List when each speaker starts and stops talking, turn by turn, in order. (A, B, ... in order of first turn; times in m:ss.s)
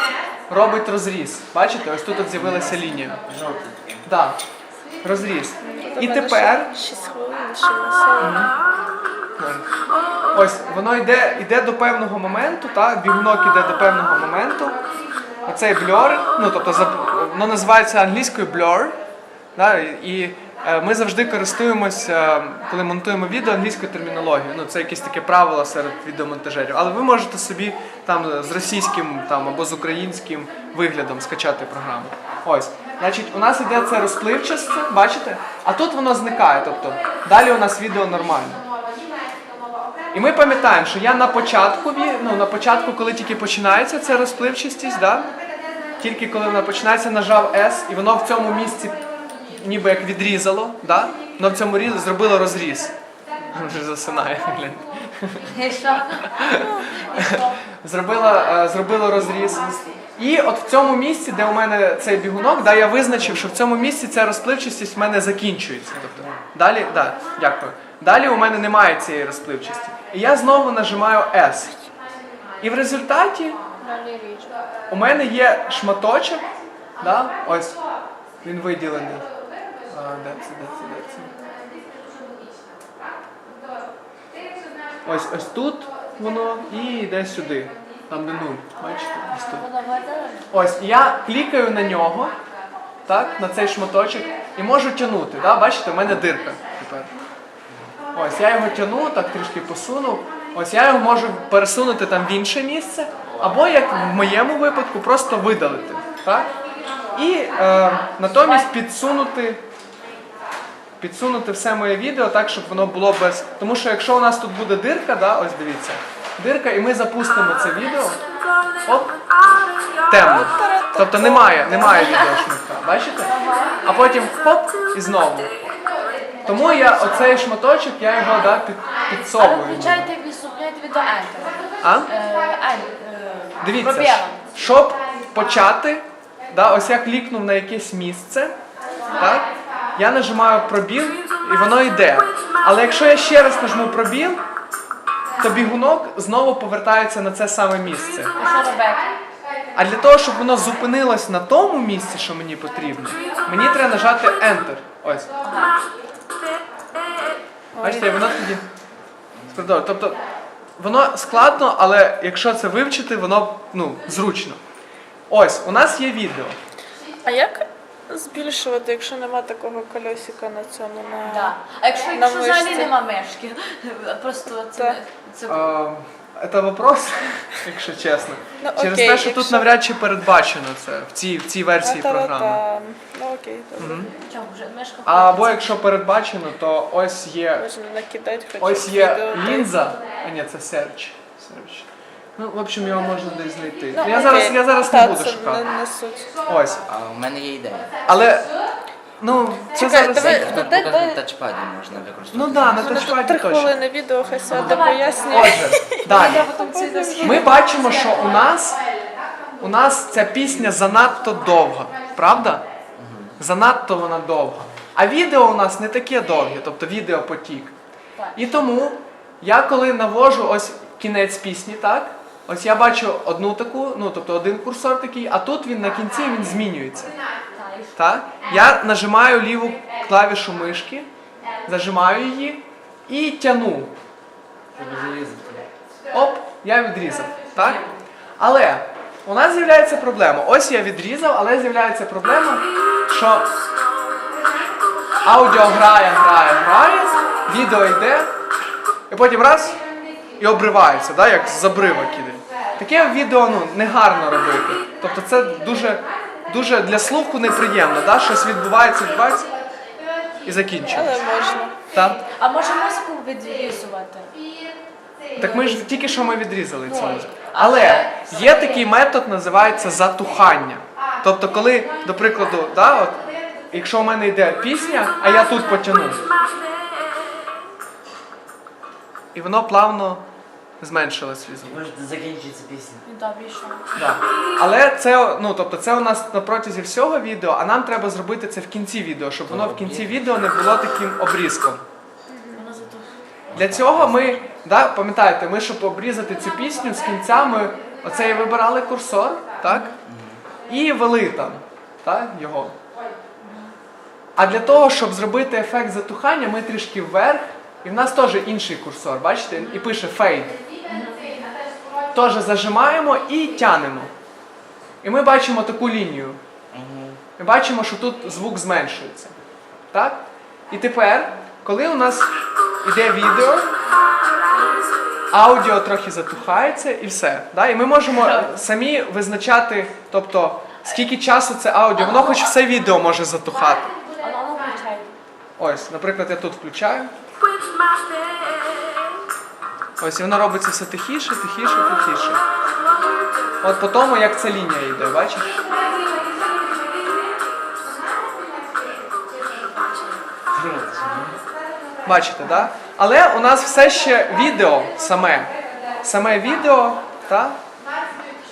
0:00.5-0:03.2 A
0:02.3-0:04.0 B
0:04.0-0:04.4 A
0:05.0-0:06.7 A
0:05.6-0:08.5 C
0:08.2-0:08.5 A
0:09.4-0:09.7 A
0:10.3-0:14.8 A
0:15.4-0:19.0 A
0:19.6-0:38.6 A
0:40.1-0:45.3 A
0:46.0-0:52.9 A
0:53.5-0:55.5 A
0:55.5-0:57.6 D
0:56.2-1:11.8 A
0:59.3-0:59.9 B
1:06.0-1:06.4 B
1:12.6-1:13.6 A
1:13.8-1:14.6 D
1:14.9-1:16.4 A
1:17.0-1:17.8 A
1:18.4-1:19.3 A
1:19.9-1:21.3 A
1:25.0-1:29.6 A
1:29.2-1:30.5 D
1:30.5-1:32.4 A
1:33.0-1:37.1 A
1:38.1-1:46.5 A
1:47.1-1:49.6 A
1:51.0-1:58.2 A
1:58.8-1:59.2 A
2:00.0-2:05.5 A
2:00.1-2:02.3 C
2:01.9-2:02.1 D
2:03.3-2:03.8 D
2:06.4-2:10.1 A
2:06.4-2:07.3 D
2:09.2-2:14.5 D
2:11.8-2:12.1 A
2:13.6-2:18.6 A
2:19.1-2:24.4 A
2:25.4-2:28.3 A
2:28.4-2:29.2 D
2:29.7-2:35.3 A
2:35.4-2:35.8 D
2:37.8-2:38.6 A
2:37.8-2:38.3 C
2:39.5-2:40.2 A
2:40.8-2:44.6 A
2:45.3-2:46.6 A
2:47.2-2:51.6 C
2:51.2-2:55.7 D
2:52.1-2:52.9 C
2:55.5-3:02.6 A
2:58.6-2:59.7 C
3:01.8-3:04.0 C
3:03.8-3:04.1 A
3:04.1-3:05.8 D
3:05.0-3:07.6 A
3:07.5-3:09.9 C
3:08.6-3:15.6 A
3:13.9-3:16.3 C
3:16.4-3:16.8 A
3:16.9-3:18.0 B
3:18.0-3:18.6 A
3:19.2-3:20.7 A
3:19.7-3:21.2 C
3:20.0-3:22.9 B
3:22.3-3:23.7 A
3:22.8-3:27.3 C
3:24.4-3:28.4 D
3:25.3-3:26.5 A
3:27.2-3:28.8 A
3:29.6-3:32.6 A
3:33.0-3:33.3 B
3:33.4-3:37.7 A
3:38.2-3:38.6 D
3:38.4-3:47.1 A
3:47.5-3:48.0 D
3:48.0-3:51.1 A
3:51.6-3:53.9 A
3:54.7-3:55.6 B
3:56.1-3:57.8 A
3:58.4-4:03.5 A
4:05.2-4:08.3 A
4:09.1-4:09.8 A
4:10.4-4:19.5 A
4:20.4-4:21.2 A
4:20.9-4:21.7 C
4:21.9-4:22.2 A
4:22.3-4:24.3 D
4:25.4-4:25.9 D
4:25.4-4:36.2 A
4:26.8-4:28.8 D
4:39.3-4:40.2 A
4:40.8-4:41.8 A
4:41.6-4:43.0 B
4:43.0-4:43.9 D
4:44.0-4:51.8 A
4:49.5-4:50.4 B
4:52.3-4:52.6 C
4:52.5-4:53.1 D
4:53.5-4:54.4 B
4:53.5-4:59.9 A
5:00.0-5:00.4 B
5:00.7-5:02.7 A
5:03.4-5:03.7 D
5:04.4-5:10.6 A
5:10.8-5:11.5 D
5:12.1-5:14.1 A
5:15.0-5:16.4 A
5:16.7-5:17.2 B
5:17.4-5:19.4 A
5:19.9-5:22.3 A
5:22.8-5:23.7 A
5:25.3-5:33.9 A
5:28.2-5:28.5 D
5:34.2-5:35.1 D
5:35.6-5:37.1 A
5:40.0-5:42.4 A
5:43.6-5:45.7 A
5:50.5-5:51.4 B
5:52.0-5:57.6 A